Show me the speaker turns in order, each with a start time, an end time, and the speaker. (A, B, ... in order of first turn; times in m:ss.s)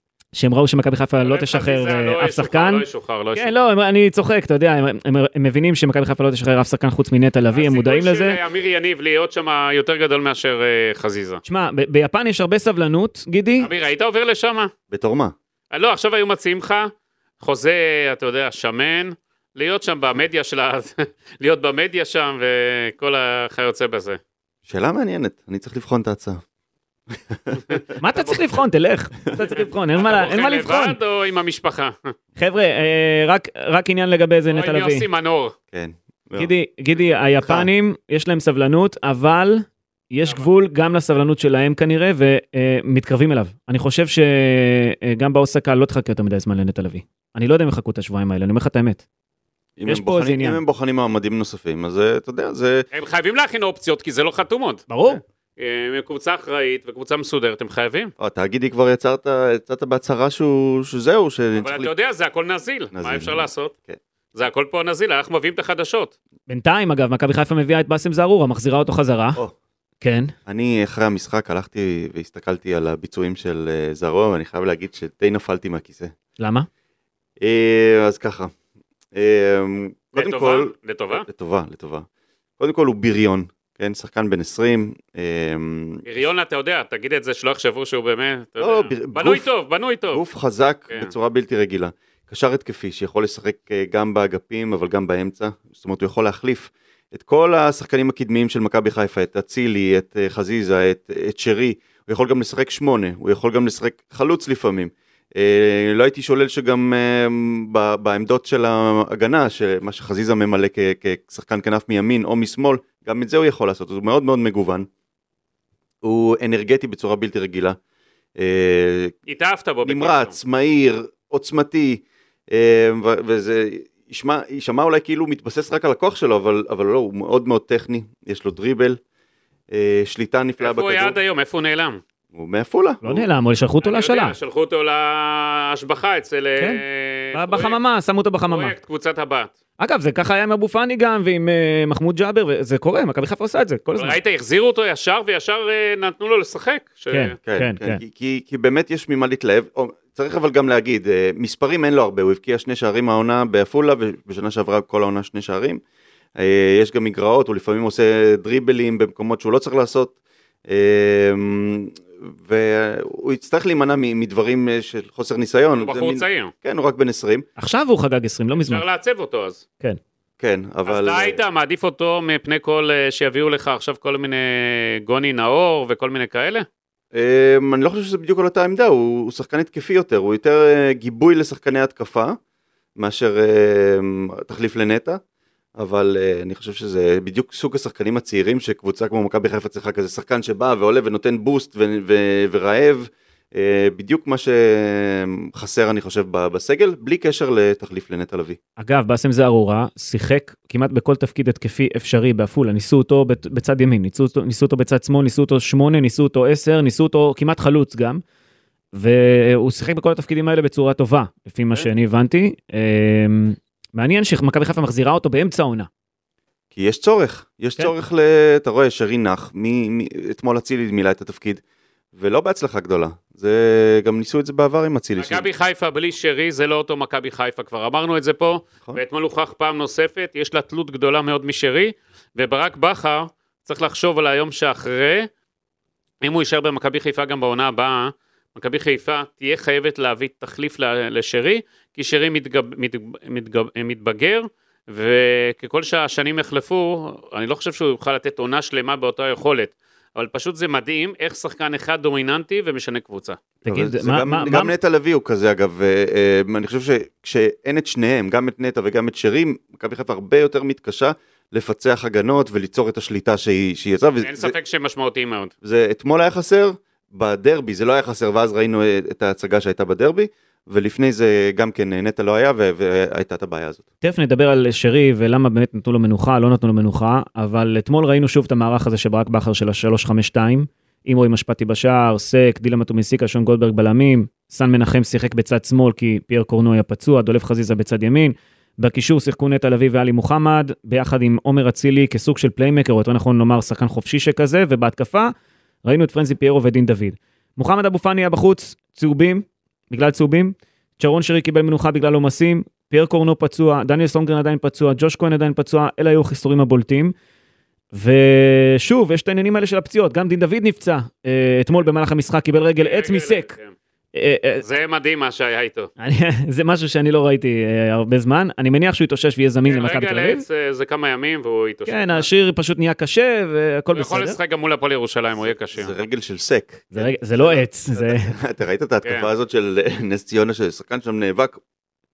0:00.3-0:02.8 A
0:01.2-0:03.6 B
0:03.4-0:08.4 A
0:07.5-0:11.4 B
0:11.4-0:13.7 A
0:13.6-0:14.7 B
0:14.9-0:15.4 C
0:15.7-0:24.2 B
0:24.7-0:26.4 C
0:27.1-0:27.8 C
0:27.7-0:28.5 B
0:28.0-0:31.0 A
0:30.0-0:32.1 B
0:32.4-0:35.0 A
0:34.5-0:35.6 B
0:35.7-0:36.5 C
0:36.4-0:49.0 A
0:37.4-0:37.7 C
0:49.8-0:52.9 C
0:49.9-0:50.6 A
0:52.9-0:54.9 B
0:54.9-0:55.2 A
0:55.6-0:58.1 B
0:58.2-1:01.9 C
1:01.6-1:03.7 B
1:02.9-1:04.0 C
1:04.3-1:06.1 B
1:06.5-1:09.4 A
1:10.0-1:10.3 A
1:10.5-1:16.1 C
1:16.4-1:16.7 A
1:17.4-1:18.5 C
1:19.1-1:22.1 C
1:20.1-1:21.3 B
1:22.6-1:26.0 C
1:26.1-1:30.2 B
1:28.6-1:29.5 C
1:30.1-1:54.9 C
1:56.0-1:57.8 C
1:58.4-1:59.1 C
1:59.3-2:00.3 B
1:59.8-2:09.0 C
2:09.7-2:11.2 C
2:10.6-2:12.0 B
2:12.3-2:13.2 C
2:13.0-2:14.4 A
2:13.8-2:17.8 B
2:16.6-2:18.7 A
2:18.5-2:19.5 B
2:19.8-2:24.2 A
2:24.0-2:27.4 B
2:27.1-2:28.0 A
2:27.5-2:35.8 C
2:36.4-2:40.2 C
2:40.7-2:47.5 C
2:45.8-2:46.5 B
2:47.6-2:48.8 A
2:48.5-2:49.6 B
2:50.4-2:51.4 C
2:50.9-2:56.7 B
2:57.1-3:02.4 C
3:03.0-3:05.2 C
3:05.8-3:18.6 C
3:18.8-3:28.2 A
3:28.9-3:35.9 A
3:36.7-3:41.6 C
3:42.1-3:45.5 C
3:45.2-3:55.3 B
3:56.2-4:13.4 B
4:13.6-4:14.7 A
4:13.6-4:24.5 C
4:24.2-4:25.5 B
4:25.6-4:33.8 C
4:34.0-4:55.3 A
4:55.8-5:07.1 A
5:07.9-5:13.5 A
5:12.8-5:13.8 B
5:14.1-5:14.6 A
5:14.6-5:15.9 B
5:16.0-5:20.4 A
5:19.6-5:22.2 B
5:21.9-5:24.4 A
5:23.9-5:25.9 B
5:25.4-5:31.6 C
5:26.9-5:28.3 A